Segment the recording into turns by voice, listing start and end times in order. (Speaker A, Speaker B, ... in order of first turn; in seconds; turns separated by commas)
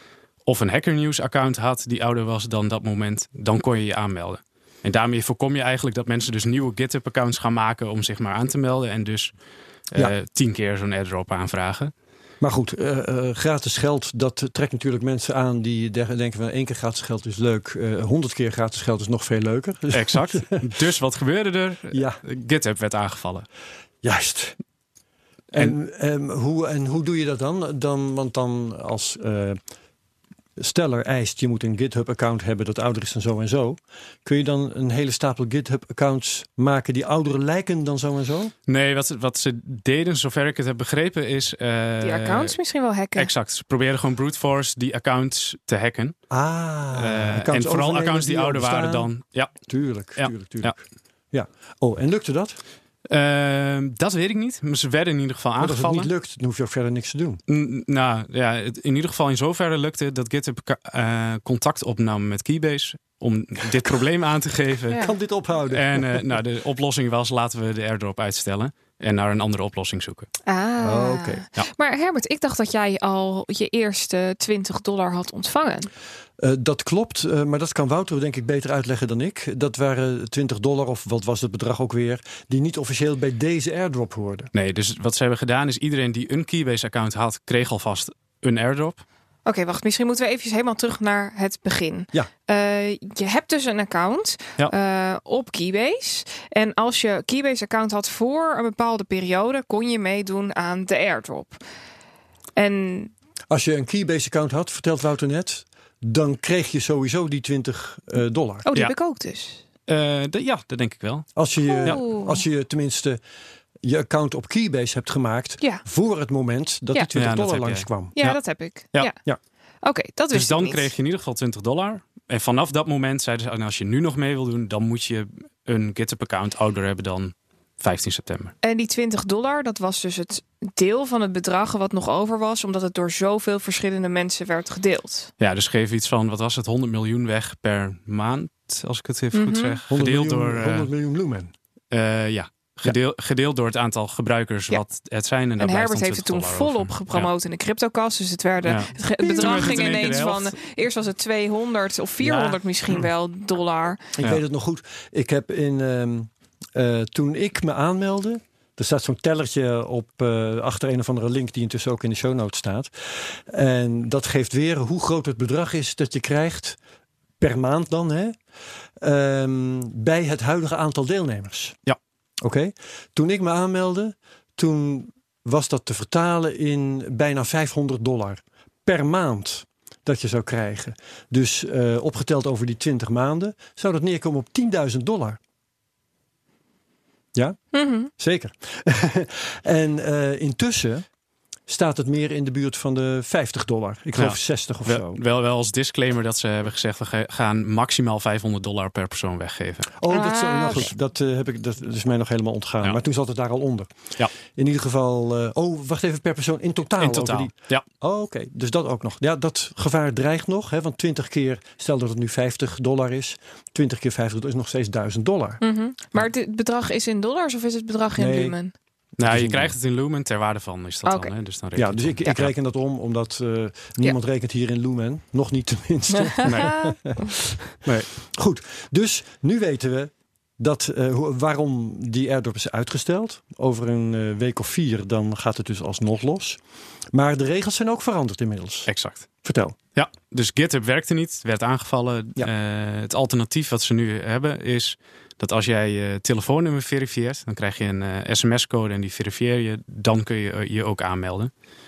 Speaker A: 0.5-9.3, Speaker A: 9.9-11.9, Speaker B: 12.4-20.8, Speaker A: 19.9-23.5, Speaker B: 21.9-22.2, Speaker B: 24.0-24.6, Speaker B: 25.5-29.6, Speaker B: 30.6-38.5, Speaker A: 38.7-42.6, Speaker C: 42.0-43.3, Speaker A: 43.2-46.3, Speaker B: 46.3-52.6, Speaker A: 46.9-50.8, Speaker A: 53.1-56.1, Speaker B: 55.6-57.4, Speaker A: 57.5-65.1, Speaker B: 64.9-66.3, Speaker A: 65.7-70.3, Speaker C: 70.5-75.9, Speaker B: 70.8-71.4, Speaker B: 76.4-84.5, Speaker A: 84.5-89.0, Speaker C: 89.5-101.6, Speaker C: 102.6-103.1, Speaker B: 103.5-108.7, Speaker C: 108.7-109.6, Speaker A: 109.9-112.0, Speaker B: 111.3-113.2, Speaker C: 111.7-112.4, Speaker B: 113.8-118.2, Speaker A: 117.1-118.4, Speaker C: 118.2-119.2, Speaker C: 119.8-120.9, Speaker A: 120.3-128.6, Speaker C: 128.6-135.3, Speaker A: 135.4-140.9, Speaker C: 139.3-139.8, Speaker B: 139.9-141.5, Speaker A: 141.9-147.3, Speaker C: 145.6-154.1, Speaker A: 148.6-150.6, Speaker B: 149.5-150.0, Speaker B: 152.2-152.6, Speaker B: 154.2-166.8, Speaker B: 167.4-168.4, Speaker B: 169.0-171.8, Speaker B: 172.4-185.4, Speaker B: 187.3-191.1, Speaker C: 187.7-188.1, Speaker B: 191.7-195.2, Speaker A: 194.2-200.0, Speaker B: 200.0-215.6, Speaker C: 200.1-200.9, Speaker A: 207.0-207.8, Speaker C: 215.6-218.8, Speaker B: 218.2-218.6, Speaker A: 219.2-222.5, Speaker B: 219.2-219.7, Speaker C: 221.1-221.3, Speaker B: 221.8-236.6, Speaker C: 226.2-227.2, Speaker A: 227.8-228.1, Speaker B: 237.1-238.9, Speaker A: 238.9-239.3, Speaker B: 239.4-239.8, Speaker A: 239.9-251.5